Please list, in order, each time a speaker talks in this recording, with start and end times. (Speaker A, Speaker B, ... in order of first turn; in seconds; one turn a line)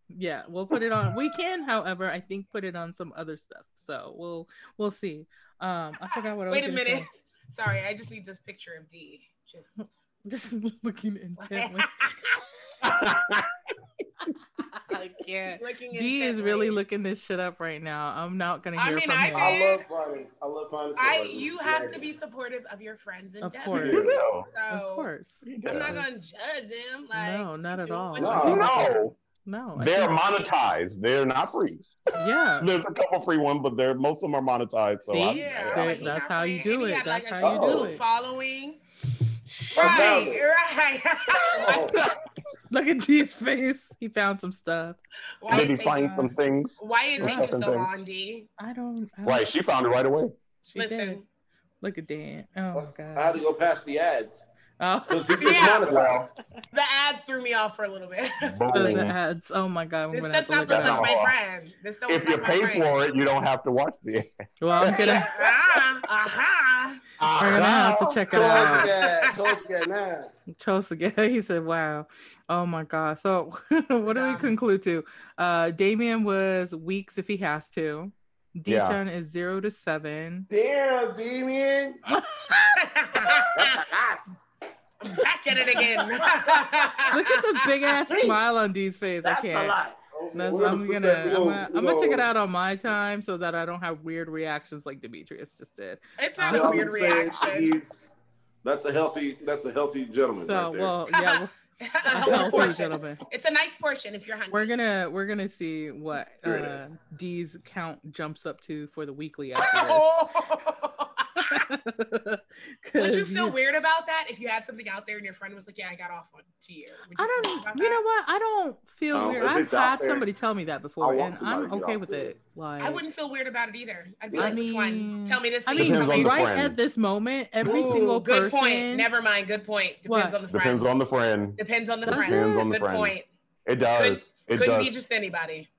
Speaker A: 0.1-7.0
Speaker B: 6.1-9.9
Speaker A: 10.3-12.1
Speaker B: 11.4-12.4
Speaker C: 12.8-13.5
Speaker A: 14.7-19.6
Speaker B: 15.5-16.8
Speaker B: 18.8-19.8
Speaker D: 19.4-22.1
Speaker B: 21.0-25.1
Speaker A: 23.4-24.1
Speaker D: 23.7-24.2
Speaker C: 23.9-24.5
Speaker A: 24.7-26.1
Speaker C: 25.4-26.0
Speaker B: 25.6-28.9
Speaker A: 27.1-30.1
Speaker D: 28.2-28.7
Speaker C: 28.5-29.1
Speaker C: 29.8-36.1
Speaker A: 32.2-32.7
Speaker A: 35.1-38.0
Speaker B: 35.3-38.8
Speaker D: 37.4-38.0
Speaker B: 39.6-42.0
Speaker D: 39.7-40.5
Speaker D: 41.5-42.0
Speaker C: 41.6-42.2
Speaker A: 42.7-46.3
Speaker B: 45.4-48.5
Speaker C: 45.5-47.9
Speaker A: 47.2-47.5
Speaker A: 48.6-49.5
Speaker C: 49.2-50.3
Speaker A: 50.7-51.2
Speaker B: 50.7-51.2
Speaker A: 51.8-53.4
Speaker D: 52.7-54.4
Speaker A: 54.8-55.8
Speaker D: 55.1-56.3
Speaker B: 55.4-56.1
Speaker C: 55.8-56.3
Speaker B: 56.7-59.0
Speaker C: 58.4-59.2
Speaker A: 58.7-61.1
Speaker B: 60.1-62.9
Speaker C: 60.7-61.3
Speaker C: 62.1-65.3
Speaker A: 64.6-65.3
Speaker B: 64.8-67.0
Speaker C: 67.2-68.7
Speaker A: 67.3-68.9
Speaker D: 68.3-70.3
Speaker B: 68.4-69.5
Speaker A: 70.6-80.5
Speaker B: 74.1-74.5
Speaker C: 78.7-79.0
Speaker D: 80.5-82.0
Speaker A: 82.1-82.7
Speaker B: 82.7-83.9
Speaker D: 83.2-84.3
Speaker B: 85.0-87.6
Speaker D: 85.6-87.1
Speaker A: 87.1-89.8
Speaker D: 88.0-88.4
Speaker D: 89.2-92.3
Speaker A: 90.3-97.1
Speaker B: 96.2-97.7
Speaker D: 96.5-100.9
Speaker A: 100.4-101.5
Speaker B: 101.1-104.7
Speaker A: 102.1-103.2
Speaker D: 102.2-102.8
Speaker A: 104.5-110.3
Speaker D: 106.4-106.9
Speaker B: 109.6-111.7
Speaker A: 111.3-113.5
Speaker B: 113.0-118.0
Speaker A: 117.2-123.0
Speaker D: 119.1-120.3
Speaker D: 121.0-122.3
Speaker B: 122.8-126.5
Speaker D: 124.3-124.6
Speaker A: 124.3-129.1
Speaker C: 125.8-126.8
Speaker B: 127.6-130.9
Speaker D: 127.6-128.1
Speaker A: 130.1-130.3
Speaker C: 130.5-133.1
Speaker B: 131.6-133.2
Speaker A: 132.1-132.7
Speaker C: 133.7-134.9
Speaker B: 133.9-135.7